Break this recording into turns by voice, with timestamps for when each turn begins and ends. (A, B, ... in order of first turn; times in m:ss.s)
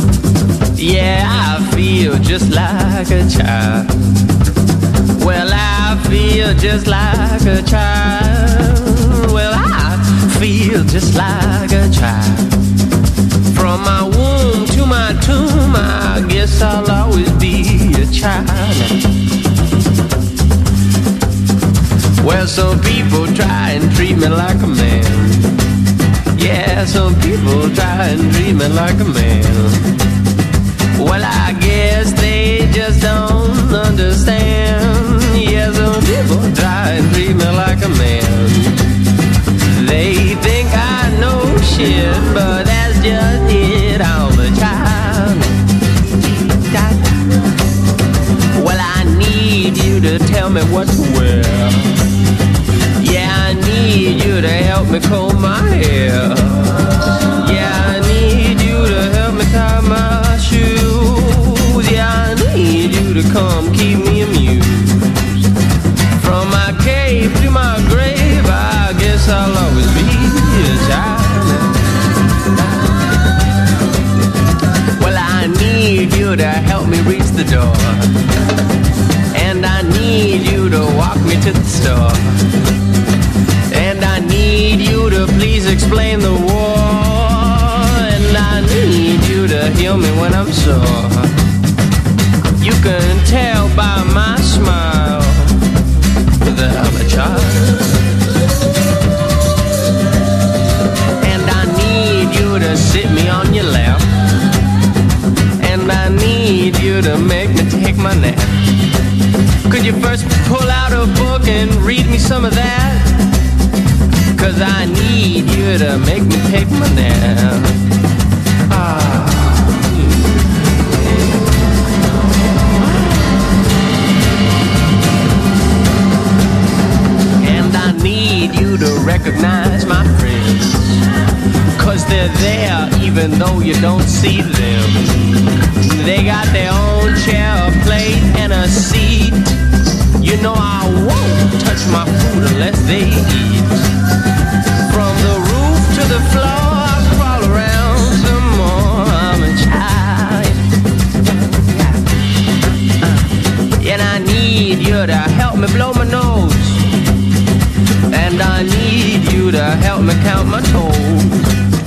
0:00.8-0:03.9 A
0:05.2-0:12.5 A
0:13.5-0:19.0 A
0:22.2-0:25.5 A
0:26.4-0:29.8 A
0:31.0-0:38.8 A
0:39.6-0:45.5 A
0:46.6-0:47.2 A
0:48.5-0:51.9 A
0:53.0-0:56.7 A
0:57.4-1:05.3 A
1:06.2-1:11.7 A
1:15.0-1:18.1 A
1:19.3-1:22.3 A
1:23.7-1:31.3 A
1:32.6-1:35.6 A
1:36.4-1:37.8 A
1:41.2-1:44.0 A
1:45.6-1:48.6 A
1:49.7-1:53.2 A
1:54.3-1:57.7 A
1:58.7-1:59.9 A
2:07.4-2:11.0 A
2:11.8-2:15.2 A
2:16.0-2:19.5 A
2:20.2-2:23.8 A
2:24.9-2:30.6 A
2:31.5-2:32.0 A
2:33.8-2:36.8 A
2:38.1-2:41.5 A